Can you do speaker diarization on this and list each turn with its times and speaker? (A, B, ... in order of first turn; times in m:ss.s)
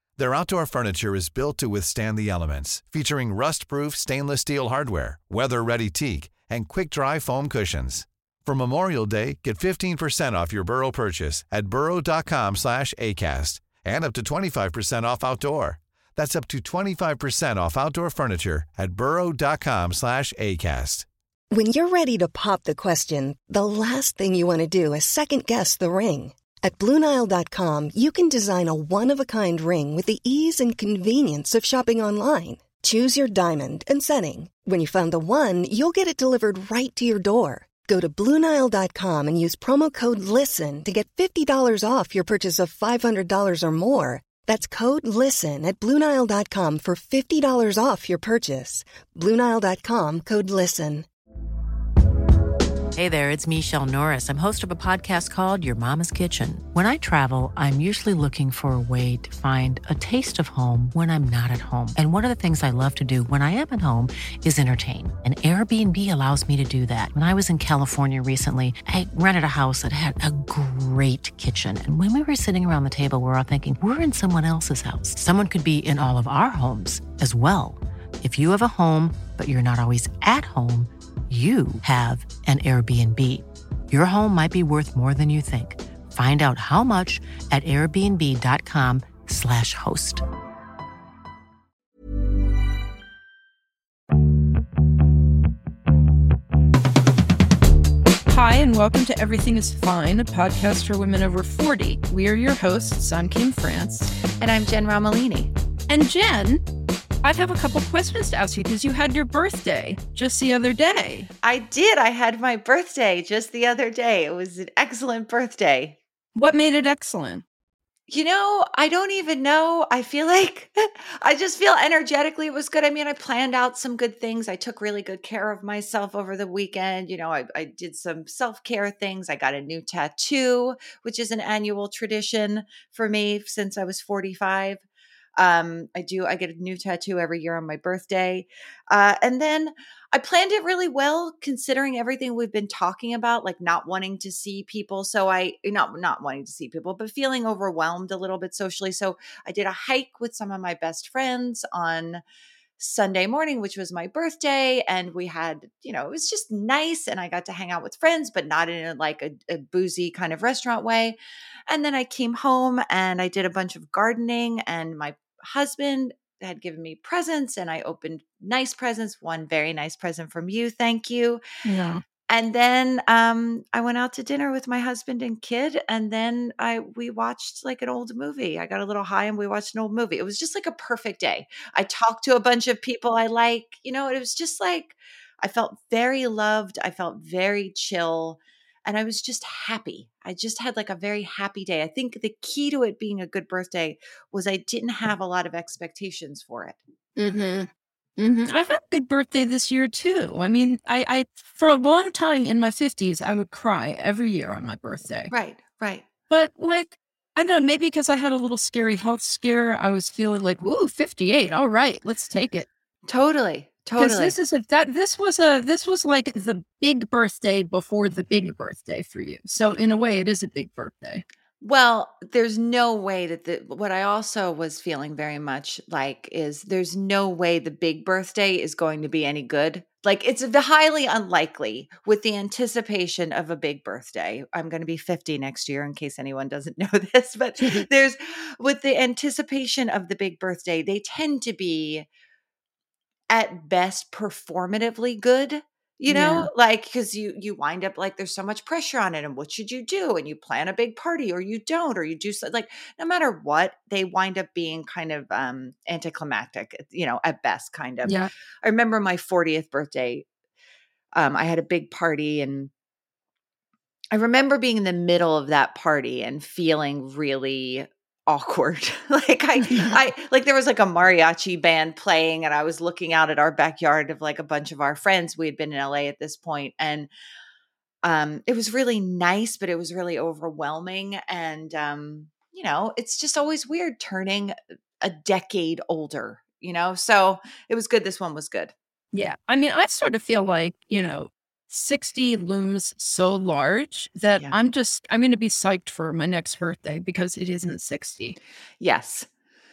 0:00.2-0:21.1 A
0:21.5-0:51.1 B
0:53.0-1:30.2 C
1:38.3-1:44.1 D
1:44.4-1:45.5 E
1:45.9-1:46.6 D
1:47.2-1:51.3 D
1:51.4-1:56.0 E
1:56.4-1:57.4 D
1:58.1-2:14.8 E
2:15.4-2:32.2 E
2:32.8-2:41.2 E
2:41.7-2:51.4 E
2:51.6-2:52.0 D
2:52.3-3:16.8 E
3:17.2-3:25.3 D
3:25.3-3:26.1 E
3:26.3-3:32.7 D
3:33.1-3:34.3 E
3:34.0-3:41.2 D
3:41.6-4:02.1 E
3:57.6-3:57.9 D
4:03.3-4:20.3 E
4:06.1-4:06.5 D
4:18.0-4:18.3 D
4:21.1-4:22.7 E
4:24.1-4:37.1 E
4:29.7-4:30.0 D
4:38.0-4:48.7 E
4:49.1-4:58.4 D
4:58.8-4:59.3 E